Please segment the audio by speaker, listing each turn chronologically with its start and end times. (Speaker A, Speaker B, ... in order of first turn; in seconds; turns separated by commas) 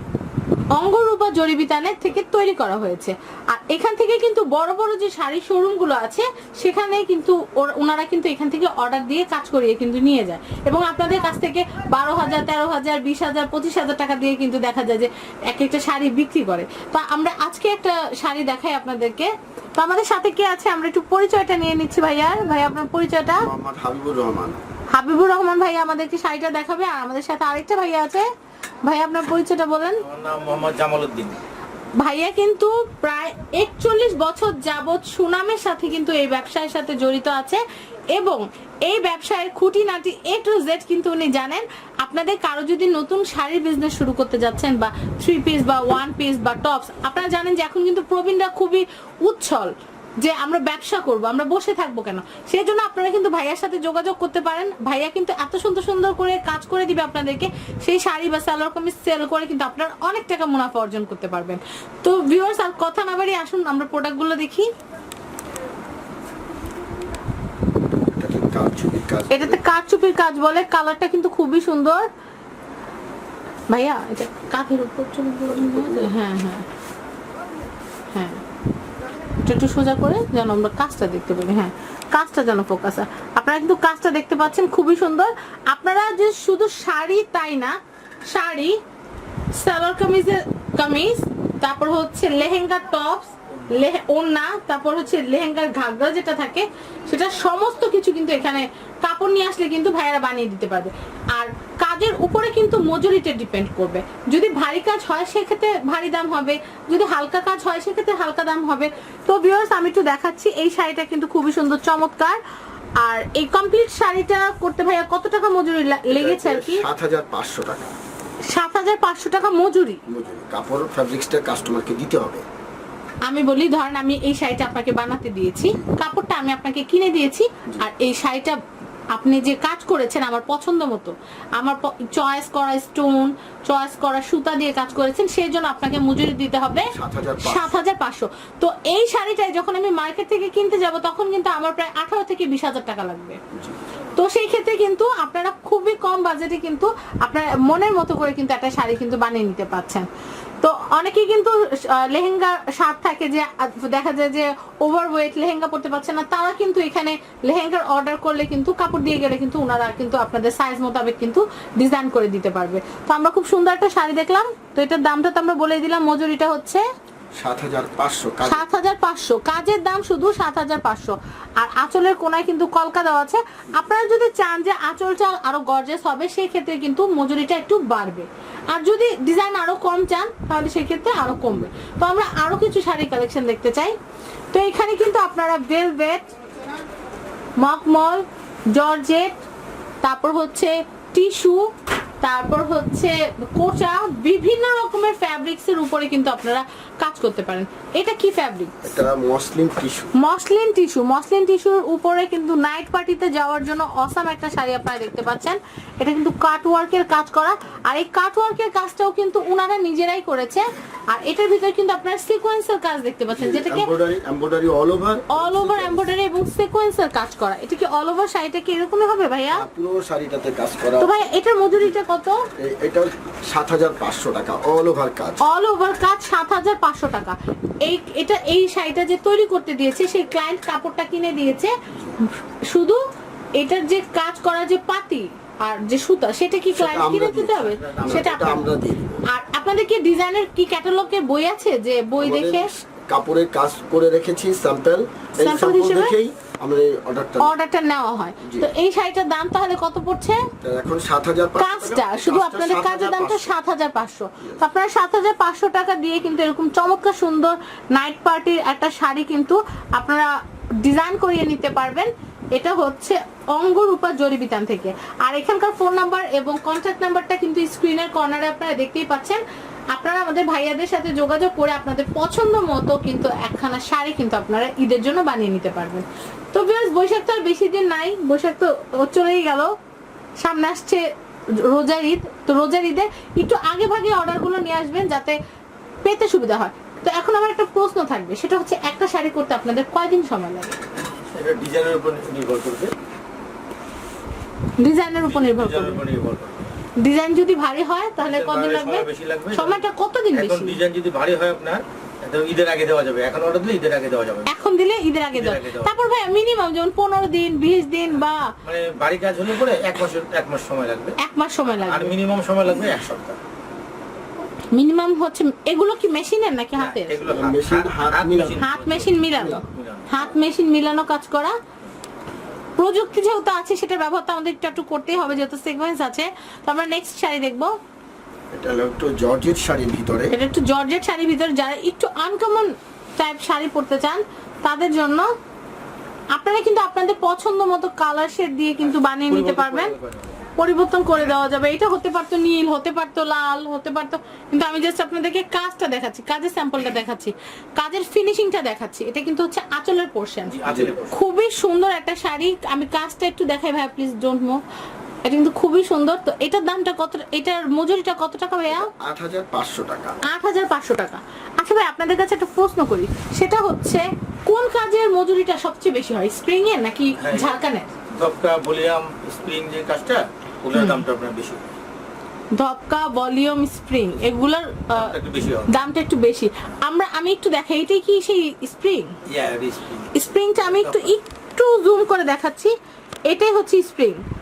Speaker A: 0.7-23.5, Speaker B: 23.4-24.6, Speaker A: 24.9-28.3, Speaker A: 28.8-30.0, Speaker C: 30.0-31.4, Speaker A: 32.0-64.7, Speaker B: 67.9-69.6, Speaker A: 69.3-72.0, Speaker A: 73.7-76.7, Speaker B: 75.5-76.1, Speaker A: 78.1-78.4, Speaker A: 79.4-87.8, Speaker A: 88.3-88.7, Speaker A: 89.5-112.4, Speaker A: 113.0-116.8, Speaker B: 116.1-117.8, Speaker A: 118.5-120.0, Speaker B: 120.1-122.4, Speaker A: 123.2-128.6, Speaker A: 129.1-143.4, Speaker B: 136.8-137.8, Speaker B: 143.5-143.8, Speaker A: 144.2-150.1, Speaker A: 150.6-166.8, Speaker B: 167.4-168.6, Speaker A: 168.4-183.9, Speaker B: 181.2-181.7, Speaker A: 184.5-186.3, Speaker A: 187.6-189.3, Speaker A: 190.0-191.7, Speaker A: 192.2-198.7, Speaker B: 198.8-200.1, Speaker A: 200.2-213.9, Speaker B: 213.3-216.1, Speaker A: 215.3-219.6, Speaker B: 219.5-221.2, Speaker A: 221.0-222.4, Speaker B: 222.6-225.4, Speaker A: 225.4-231.7, Speaker B: 231.9-232.2, Speaker A: 232.7-233.0, Speaker A: 233.6-238.7, Speaker B: 236.7-239.2, Speaker C: 237.5-238.6, Speaker A: 239.3-242.7, Speaker B: 242.2-247.5, Speaker A: 245.4-246.1, Speaker A: 247.4-250.4, Speaker B: 250.6-253.6, Speaker A: 251.6-260.3, Speaker A: 260.8-269.4, Speaker A: 269.9-279.7, Speaker A: 280.4-285.4, Speaker A: 286.0-290.8, Speaker C: 291.3-292.9, Speaker A: 294.8-296.0, Speaker C: 295.2-296.7, Speaker A: 297.0-300.8, Speaker C: 298.2-304.5, Speaker A: 304.5-308.5, Speaker C: 305.3-305.9, Speaker C: 308.6-313.4, Speaker A: 311.2-312.1, Speaker A: 314.7-317.2, Speaker C: 316.8-320.1, Speaker B: 317.2-318.6, Speaker A: 318.6-321.5, Speaker B: 319.4-319.6, Speaker A: 322.8-327.7, Speaker B: 328.5-330.3, Speaker A: 330.3-335.3, Speaker A: 336.3-339.9, Speaker C: 338.8-340.4, Speaker A: 340.6-350.6, Speaker C: 350.5-351.1, Speaker B: 350.7-351.0, Speaker A: 351.1-354.6, Speaker A: 355.2-358.9, Speaker B: 358.7-360.2, Speaker A: 360.2-367.9, Speaker C: 367.2-367.6, Speaker C: 368.1-371.6, Speaker A: 370.7-371.0, Speaker A: 372.5-375.1, Speaker C: 374.9-375.7, Speaker A: 375.7-379.1, Speaker C: 379.3-381.1, Speaker A: 380.1-382.7, Speaker A: 383.3-384.2